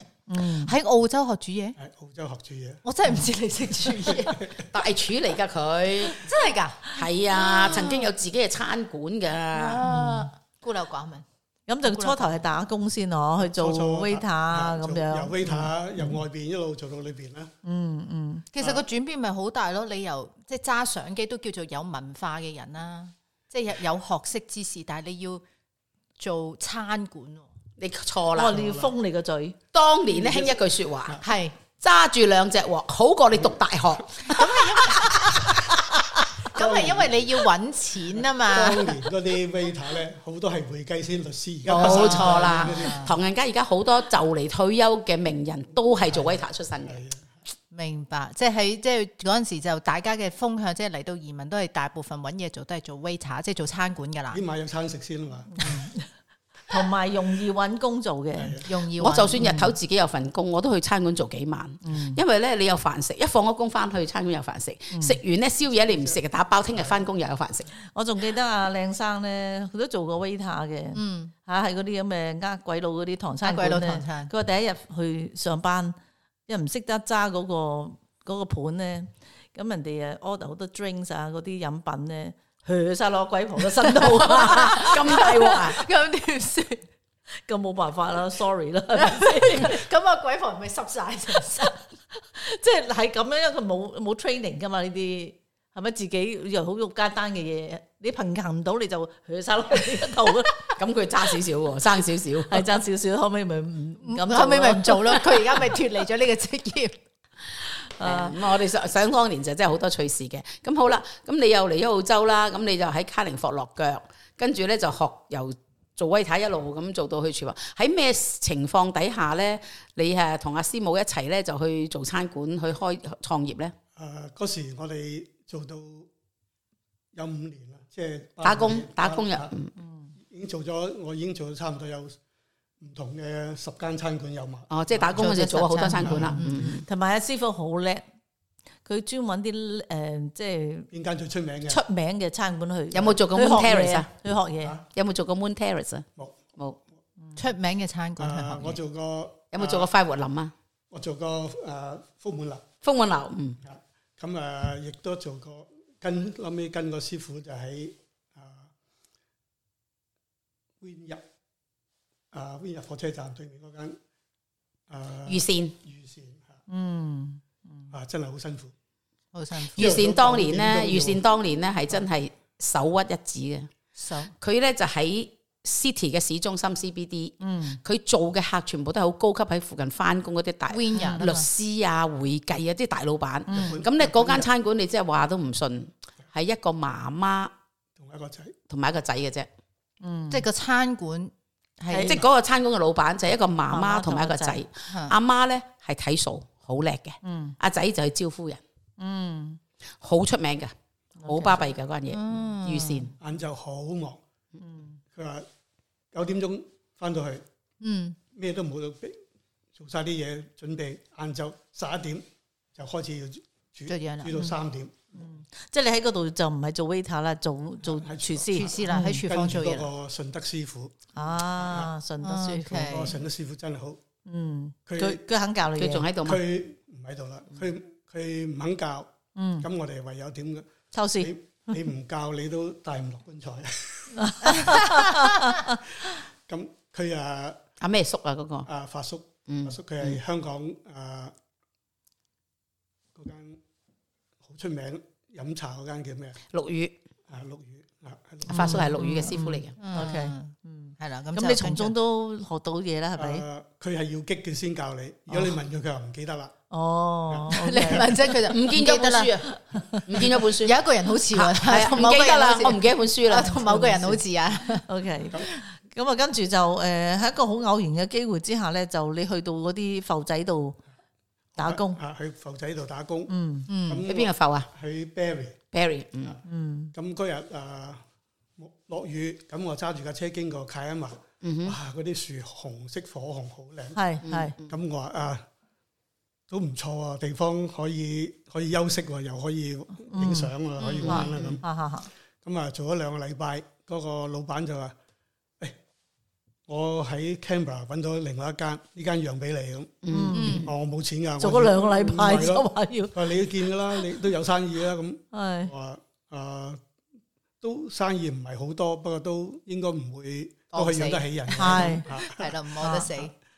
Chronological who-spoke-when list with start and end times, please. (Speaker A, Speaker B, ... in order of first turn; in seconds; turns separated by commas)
Speaker A: 0.3-0.7, Speaker B: 0.5-1.8, Speaker C: 1.8-2.8, Speaker B: 2.8-4.5, Speaker C: 4.0-4.6, Speaker D: 4.7-6.3, Speaker B: 6.1-8.1, Speaker D: 6.9-9.8, Speaker B: 9.5-11.2, Speaker A: 9.8-10.3, Speaker A: 11.7-16.1, Speaker B: 11.8-12.4, Speaker C: 13.4-17.5, Speaker A: 17.6-18.4, Speaker B: 18.5-25.4, Speaker B: 26.2-27.5, Speaker D: 27.8-28.6, Speaker A: 28.4-29.6, Speaker C: 28.4-28.9, Speaker D: 29.7-31.2, Speaker C: 30.1-31.2, Speaker B: 31.2-31.5, Speaker D: 31.8-35.5, Speaker B: 34.2-35.4, Speaker B: 36.5-39.0, Speaker C: 36.5-37.3, Speaker C: 38.4-43.1, Speaker B: 41.7-43.1, Speaker D: 41.7-47.0, Speaker C: 46.1-47.3, Speaker B: 47.7-54.4, Speaker C: 54.3-55.8, Speaker A: 55.5-56.1, Speaker A: 56.7-58.6, Speaker C: 58.4-58.7, Speaker B: 58.6-59.4, Speaker D: 59.0-67.7, Speaker A: 59.4-59.7, Speaker A: 61.8-62.2, Speaker A: 64.9-65.2, Speaker C: 65.9-66.2, Speaker A: 67.9-76.0, Speaker B: 70.9-71.3, Speaker B: 73.4-74.3, Speaker A: 76.5-85.3, Speaker D: 84.0-85.8, Speaker B: 84.0-86.8, Speaker A: 87.5-89.8, Speaker B: 89.0-91.8, Speaker A: 91.6-100.6, Speaker D: 100.8-102.7, Speaker A: 102.5-105.3, Speaker B: 104.0-107.0, Speaker A: 108.0-108.4, Speaker D: 108.0-123.7, Speaker C: 124.0-126.1, Speaker C: 127.1-129.5, Speaker D: 128.4-129.7, Speaker A: 129.8-130.1, Speaker C: 130.2-132.2, Speaker C: 132.8-135.2, Speaker D: 134.7-136.8, Speaker B: 135.2-136.7, Speaker C: 136.0-136.4, Speaker A: 136.8-138.0, Speaker A: 138.8-140.9, Speaker C: 140.9-141.8, Speaker A: 141.7-144.8, Speaker D: 142.9-144.1, Speaker D: 144.9-146.1, Speaker C: 146.2-146.6, Speaker B: 147.3-148.8, Speaker C: 148.2-149.9, Speaker D: 149.5-150.5, Speaker C: 150.9-152.6, Speaker D: 152.8-153.6, Speaker C: 153.6-158.7, Speaker C: 160.8-161.2, Speaker C: 162.3-164.0, Speaker C: 164.9-166.6, Speaker D: 165.2-165.7, Speaker A: 166.7-167.9, Speaker C: 167.9-168.7, Speaker B: 169.3-169.9, Speaker D: 169.7-173.7, Speaker C: 169.7-171.2, Speaker B: 173.9-174.3, Speaker D: 174.4-187.5, Speaker A: 177.4-177.8, Speaker B: 180.7-181.4, Speaker A: 183.5-183.8, Speaker C: 183.5-184.5, Speaker C: 187.9-188.5, Speaker D: 188.7-189.5, Speaker A: 190.0-190.4, Speaker B: 190.3-192.2, Speaker A: 191.9-192.2, Speaker D: 192.0-198.6, Speaker A: 193.7-194.6, Speaker B: 194.9-195.1, Speaker A: 197.2-197.5, Speaker A: 199.0-199.6, Speaker D: 200.0-200.7, Speaker A: 201.2-201.7, Speaker D: 201.3-203.1, Speaker B: 202.1-203.1, Speaker C: 203.2-204.2, Speaker A: 204.6-205.0, Speaker C: 205.1-205.5, Speaker C: 206.1-207.4, Speaker B: 207.8-208.2, Speaker C: 208.3-209.2, Speaker C: 209.7-215.2, Speaker B: 213.9-214.4, Speaker A: 215.2-219.2, Speaker C: 217.8-221.9, Speaker B: 218.5-219.9, Speaker A: 221.1-223.0, Speaker B: 222.2-223.2, Speaker C: 222.7-224.0, Speaker A: 224.2-226.1, Speaker C: 224.9-225.2, Speaker D: 225.8-226.4, Speaker C: 226.2-234.9, Speaker A: 229.3-229.7, Speaker A: 230.9-231.8, Speaker A: 234.1-235.8, Speaker C: 236.1-237.6, Speaker D: 237.8-238.7, Speaker C: 238.7-241.3, Speaker D: 239.5-240.2, Speaker C: 243.1-243.6, Speaker C: 244.4-246.4, Speaker D: 246.5-247.0, Speaker C: 247.3-248.9, Speaker D: 248.5-249.8, Speaker A: 248.5-253.4, Speaker B: 249.8-251.9, Speaker C: 253.2-256.5, Speaker A: 256.7-258.3, Speaker C: 257.3-258.0, Speaker B: 257.5-259.4, Speaker D: 258.5-259.5, Speaker A: 259.5-260.0, Speaker D: 260.0-264.2, Speaker B: 260.2-264.9, Speaker A: 264.9-270.8, Speaker C: 271.6-275.6, Speaker A: 271.6-272.0, Speaker A: 273.3-273.7, Speaker B: 273.7-274.0, Speaker D: 274.1-274.7, Speaker D: 275.7-276.4, Speaker A: 276.4-276.9, Speaker C: 276.9-278.0, Speaker C: 278.6-284.0, Speaker D: 281.4-281.8, Speaker A: 283.9-284.5, Speaker D: 284.2-284.7, Speaker C: 284.6-285.4, Speaker C: 286.5-291.6, Speaker A: 290.1-290.5, Speaker D: 290.8-291.6, Speaker A: 291.0-292.1, Speaker C: 292.4-294.9, Speaker C: 296.7-300.0, Speaker D: 300.0-300.6, Speaker A: 300.1-300.6, Speaker B: 300.3-300.7, Speaker C: 300.6-306.8, Speaker A: 301.4-304.1, Speaker A: 305.3-305.7, Speaker C: 307.6-312.5, Speaker B: 310.7-313.3, Speaker A: 311.6-312.0, Speaker A: 312.8-313.1